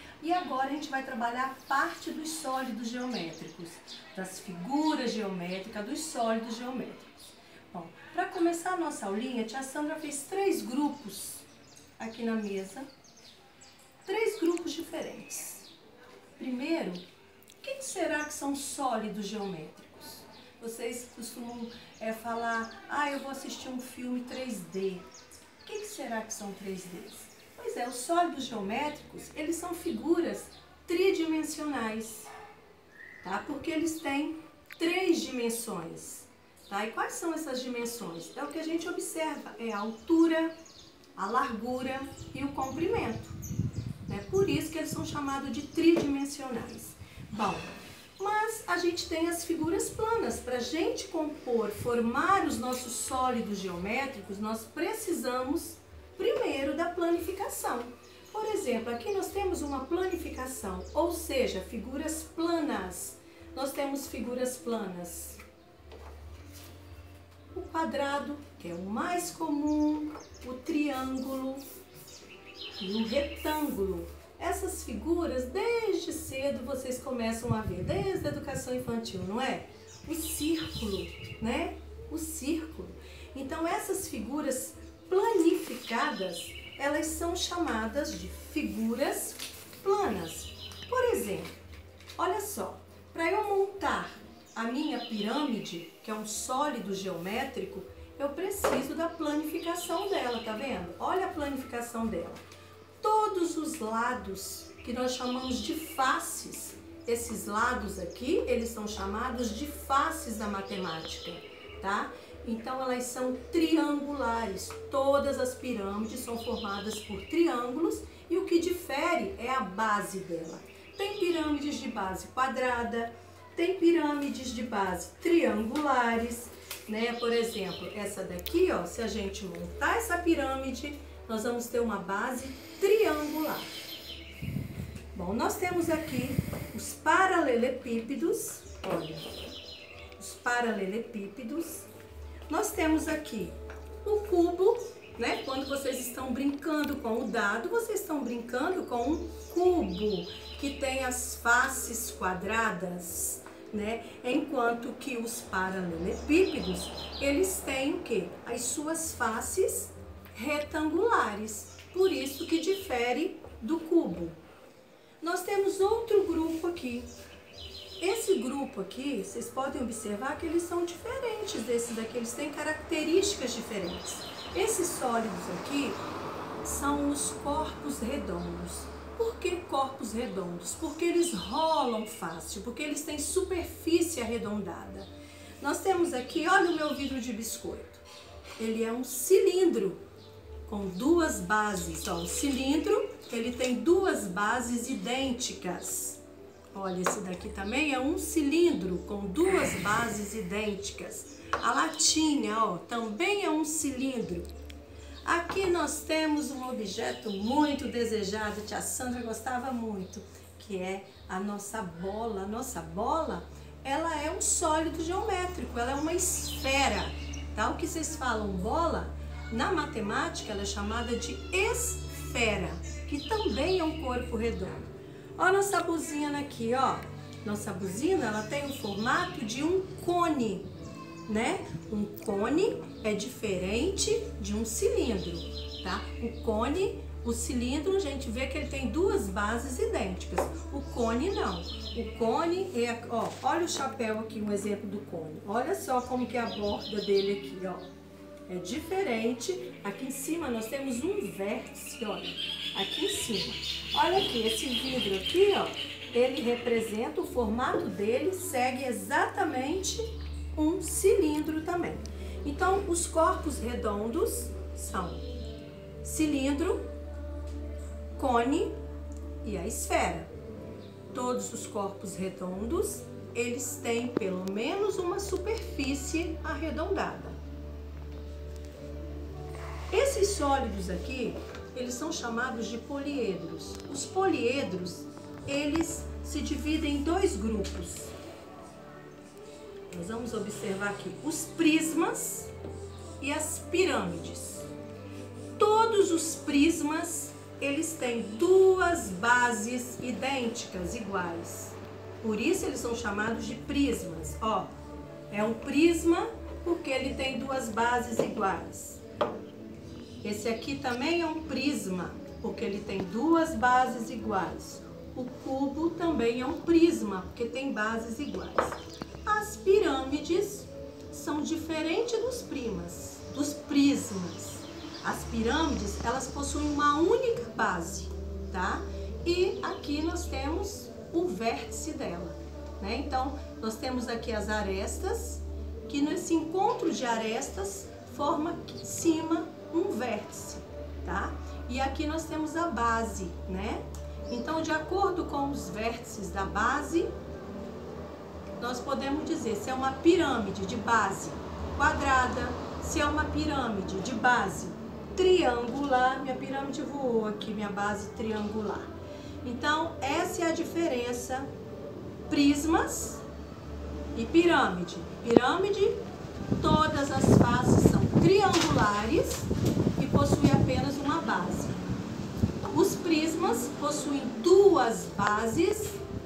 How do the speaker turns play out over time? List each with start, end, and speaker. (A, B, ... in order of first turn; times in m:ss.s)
0:00.2-0:07.1 A
0:07.7-0:11.4 A
0:12.0-0:12.9 A
0:14.0-0:15.7 A
0:16.4-0:17.0 A
0:17.6-0:25.0 A
0:25.6-0:32.3 A
0:33.2-0:40.5 A
0:41.2-0:43.4 A
0:44.1-1:05.4 A
1:07.5-1:11.6 A
1:12.8-1:31.5 A
1:32.2-1:42.4 A
1:43.0-2:13.7 A
2:15.1-2:19.2 A
2:20.2-2:21.9 A
2:22.5-2:44.4 A
2:45.2-2:47.1 A
2:48.0-2:56.0 A
2:56.6-3:05.1 A
3:05.6-3:08.0 A
3:08.6-3:10.0 A
3:10.7-3:16.2 A
3:16.7-3:24.5 A
3:25.2-3:50.7 A
3:51.2-4:07.8 A
4:08.5-4:25.2 A
4:26.0-4:26.8 A
4:28.2-4:28.7 A
4:29.4-4:30.3 A
4:31.1-4:37.4 A
4:39.9-4:48.1 A
4:49.9-4:52.5 A
4:53.2-4:54.7 A
4:55.6-5:04.7 A
5:05.3-5:09.0 A
5:10.2-5:47.1 A
5:48.6-5:58.9 A
5:59.4-6:01.5 A
6:02.3-6:03.2 A
6:04.1-6:06.0 A
6:06.6-6:11.8 A
6:12.7-6:16.0 A